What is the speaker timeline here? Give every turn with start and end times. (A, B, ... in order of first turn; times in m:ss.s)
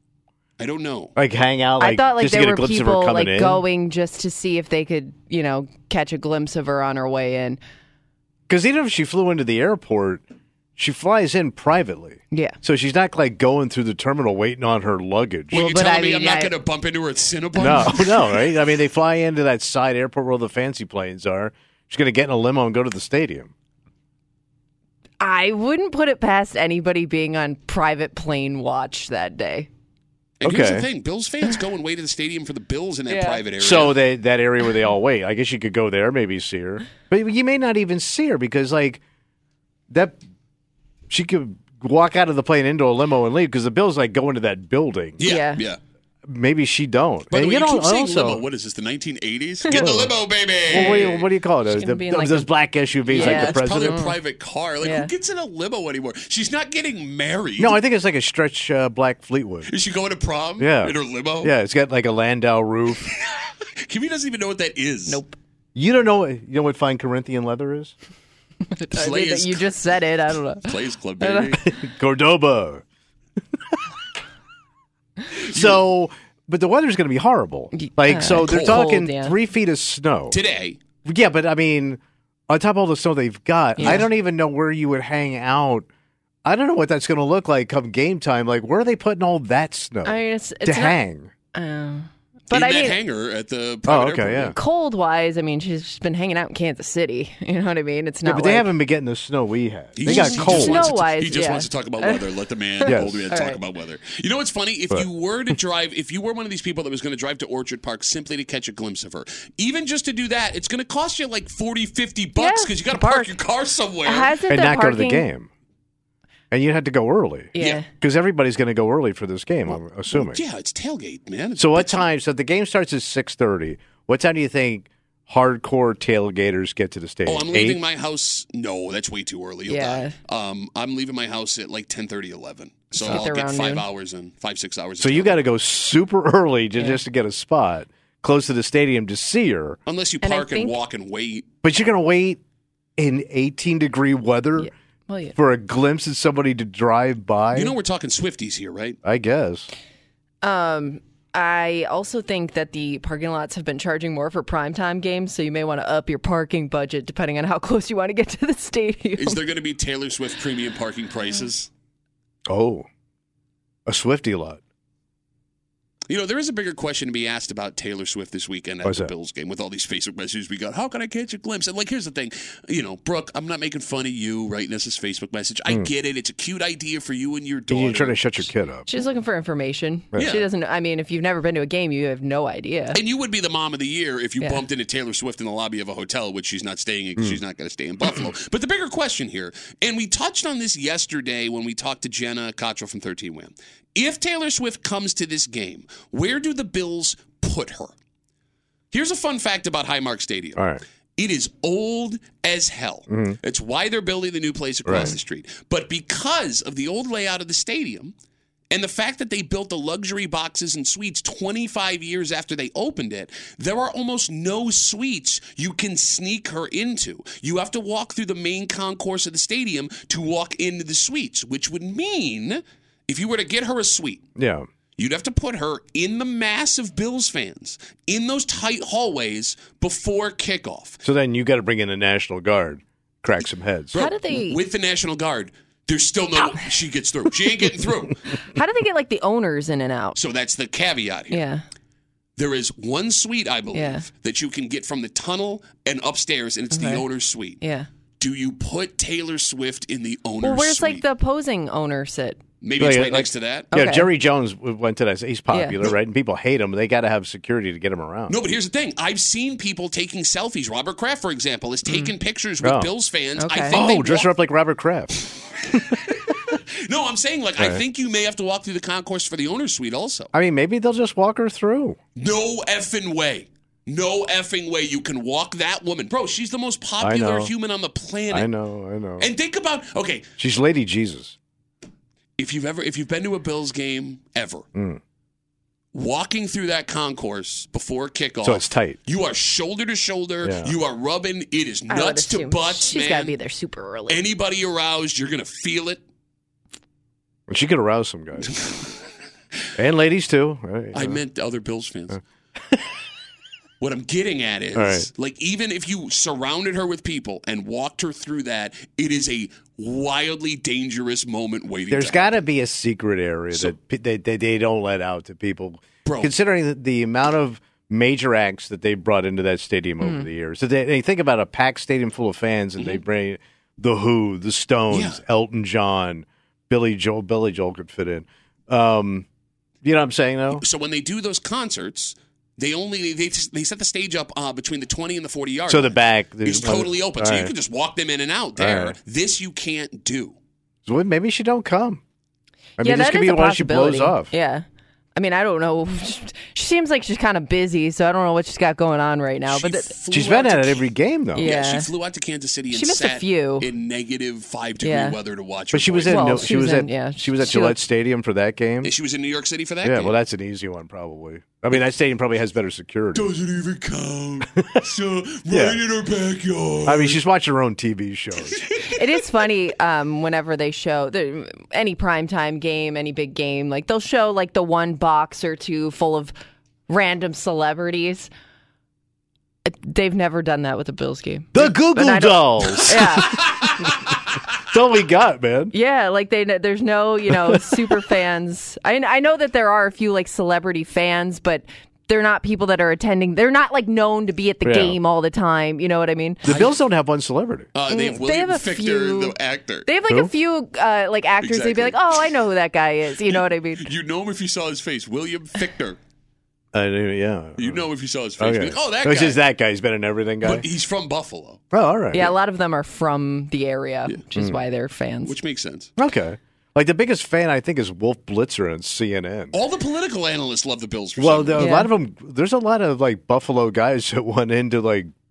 0:00.6-0:01.1 A
0:01.2-0:03.6 B
0:01.8-0:07.6 C
0:08.5-0:10.2 B
0:10.8-0:15.7 B
0:12.3-0:12.6 C
0:15.5-0:18.4 A
0:15.5-0:16.5 C
0:17.6-0:23.5 B
0:25.2-0:29.7 C
0:30.4-0:34.0 A
0:30.4-0:30.8 B
0:33.1-0:33.4 C
0:33.6-0:39.0 B
0:39.9-0:40.2 B
0:41.1-0:45.2 B
0:45.2-0:45.8 A
0:45.2-0:45.6 C
0:46.2-0:48.4 B
0:47.3-0:51.2 A
0:49.7-0:50.2 B
0:50.7-0:54.0 B
0:50.7-0:51.1 C
0:51.7-0:52.5 C
0:53.1-0:57.8 A
0:53.1-0:54.2 C
0:54.8-0:55.1 C
0:57.6-0:59.7 B
0:59.7-1:01.5 A
1:00.6-1:03.1 B
1:03.8-1:05.2 A
1:05.1-1:05.4 C
1:05.7-1:07.9 B
1:08.7-1:11.5 C
1:08.9-1:09.7 A
1:10.6-1:11.6 A
1:11.6-1:12.8 B
1:15.4-1:20.4 B
1:15.4-1:15.8 A
1:17.7-1:19.4 C
1:18.4-1:18.8 A
1:20.3-1:20.8 A
1:21.0-1:25.9 B
1:23.8-1:24.1 C
1:26.4-1:31.3 B
1:30.0-1:31.0 C
1:31.5-1:33.0 C
1:32.5-1:34.6 A
1:33.9-1:34.6 B
1:34.5-1:38.7 C
1:38.2-1:40.9 B
1:40.0-1:54.3 A
1:40.0-1:42.2 C
1:42.8-1:43.6 C
1:42.9-1:43.3 B
1:52.4-1:53.4 C
1:54.0-1:55.3 C
1:54.5-1:55.5 B
1:56.5-2:00.4 B
1:57.5-1:57.9 C
1:59.7-2:02.0 A
2:01.6-2:07.8 B
2:07.2-2:15.4 A
2:09.7-2:10.1 C
2:13.0-2:13.8 C
2:15.0-2:19.8 B
2:19.8-2:21.5 A
2:20.2-2:20.8 C
2:21.6-2:22.4 B
2:23.0-2:24.7 B
2:24.6-2:25.3 C
2:25.4-2:27.7 B
2:27.5-2:29.0 A
2:29.0-2:29.7 B
2:30.4-2:39.4 C
2:39.2-2:41.7 A
2:42.5-2:42.9 B
2:43.8-2:44.6 B
2:46.1-2:58.5 A
2:48.8-2:49.1 B
2:57.7-2:58.9 B
2:58.9-3:03.0 C
3:00.2-3:00.4 A
3:02.9-3:17.9 A
3:18.9-3:20.6 A
3:20.6-3:20.8 B
3:21.2-3:28.1 A
3:23.1-3:23.4 B
3:24.8-3:25.2 B
3:28.7-3:44.2 A
3:44.4-3:44.7 B
3:45.0-3:51.0 A
3:51.0-3:54.0 B
3:53.9-3:58.2 A
3:54.0-3:54.6 C
3:58.5-4:00.2 C
4:00.1-4:01.4 A
4:01.3-4:01.6 C
4:02.4-4:07.6 A
4:03.7-4:04.0 C
4:06.7-4:07.0 C
4:07.6-4:07.9 C
4:08.2-4:11.0 A
4:10.4-4:12.4 C
4:12.6-4:13.7 A
4:12.8-4:18.4 B
4:13.7-4:14.1 C
4:15.5-4:15.8 C
4:18.3-4:24.3 A
4:21.8-4:22.1 C
4:22.6-4:22.9 B
4:23.4-4:23.8 C
4:23.7-4:25.1 B
4:26.5-4:30.3 A
4:30.3-4:32.0 B
4:32.2-4:38.5 A
4:37.0-4:37.5 B
4:38.3-4:39.3 B
4:39.2-4:40.3 A
4:40.4-4:41.4 B
4:42.4-4:44.6 A
4:44.7-4:45.0 B
4:45.9-4:53.3 A
4:48.4-4:49.0 B
4:50.4-4:50.7 B
4:51.9-4:54.2 C
4:54.1-4:56.0 A
4:57.5-4:58.5 B
4:58.5-4:58.9 A
4:59.8-5:01.2 B
5:00.9-5:02.2 A
5:03.8-5:12.4 A
5:04.7-5:05.1 B
5:11.9-5:29.2 B
5:16.0-5:16.3 A
5:20.0-5:20.3 C
5:24.9-5:25.2 A
5:29.8-5:30.6 B
5:30.5-5:40.4 A
5:35.7-5:37.5 B
5:38.6-5:39.0 B
5:40.8-5:42.0 B
5:42.8-5:44.3 B
5:42.8-5:44.6 C
5:45.2-5:49.9 C
5:49.5-5:56.5 A
5:50.1-5:51.5 B
5:51.4-5:51.9 C
5:52.7-5:53.7 C
5:54.8-5:55.2 C
5:55.7-5:58.9 B
5:56.1-5:57.8 C
5:58.8-6:00.1 A
5:59.8-6:03.3 B
6:03.1-6:07.2 A
6:05.5-6:05.8 B
6:06.8-6:08.6 B
6:08.5-6:08.8 A
6:08.9-6:16.3 C
6:16.9-6:18.3 C
6:19.6-6:23.5 C
6:21.5-6:24.1 B
6:23.3-6:24.0 A
6:24.7-6:25.7 B
6:25.7-6:36.4 C
6:27.3-6:27.6 B
6:34.6-6:35.0 B
6:36.4-6:37.7 B
6:36.4-6:36.8 A
6:37.7-6:39.9 A
6:37.9-6:39.3 C
6:39.8-6:43.9 C
6:41.4-6:42.0 A
6:43.8-6:46.0 A
6:46.7-6:47.8 B
6:47.6-6:49.4 A
6:48.4-6:50.6 B
6:50.4-6:51.6 A
6:51.7-6:52.3 B
6:52.1-6:55.3 C
6:54.3-6:54.6 B
6:55.2-6:55.9 A
6:56.0-6:59.6 B
6:59.5-7:01.7 A
7:01.2-7:05.1 B
7:01.6-7:01.9 C